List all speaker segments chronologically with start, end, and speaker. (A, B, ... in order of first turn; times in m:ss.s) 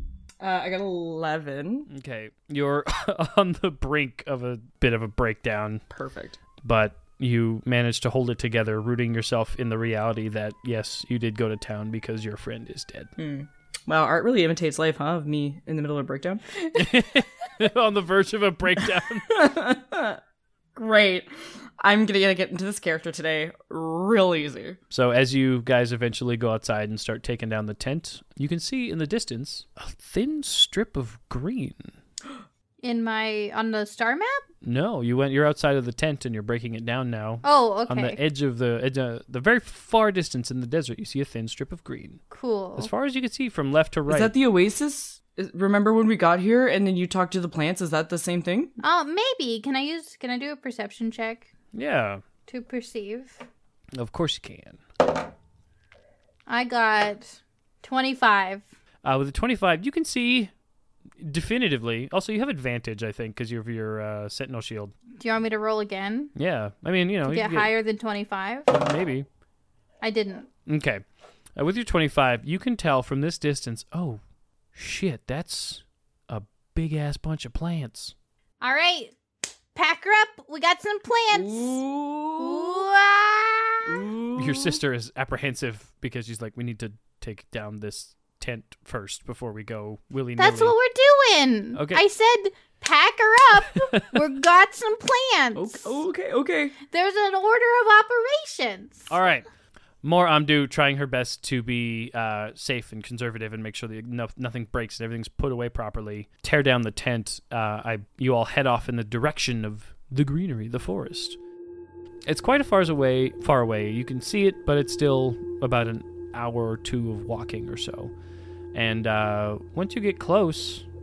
0:00.4-0:01.9 A
0:01.9-0:05.8 B
0:05.9-0:06.4 A
0:06.6-0:13.1 B
0:13.2-0:16.4 A
0:16.7-0:19.4 B
0:19.3-0:20.2 A
0:20.8-0:24.8 A
0:24.9-0:32.0 B
0:32.8-0:34.4 C
0:34.6-0:42.2 B
0:37.4-0:38.2 C
0:42.3-0:42.9 C
0:42.8-0:44.3 B
0:44.1-0:48.7 A
0:48.8-0:51.5 C
0:51.7-0:52.2 B
0:52.5-0:53.4 C
0:53.9-0:54.8 B
0:56.5-0:58.7 C
0:59.0-1:00.5 B
1:01.2-1:04.9 B
1:05.2-1:06.3 C
1:06.3-1:07.7 B
1:07.2-1:08.7 C
1:08.7-1:09.3 B
1:10.0-1:10.5 C
1:10.6-1:11.0 B
1:11.6-1:14.2 B
1:14.7-1:18.1 B
1:18.6-1:19.1 C
1:19.7-1:21.8 C
1:21.3-1:22.8 A
1:22.4-1:24.0 C
1:23.8-1:24.8 A
1:24.4-1:30.8 B
1:30.4-1:36.0 C
1:31.7-1:32.0 B
1:33.7-1:34.2 B
1:35.5-1:36.7 A
1:36.8-1:39.1 C
1:39.1-1:39.4 B
1:40.0-1:51.4 B
1:52.2-1:58.1 B
1:58.7-2:00.9 B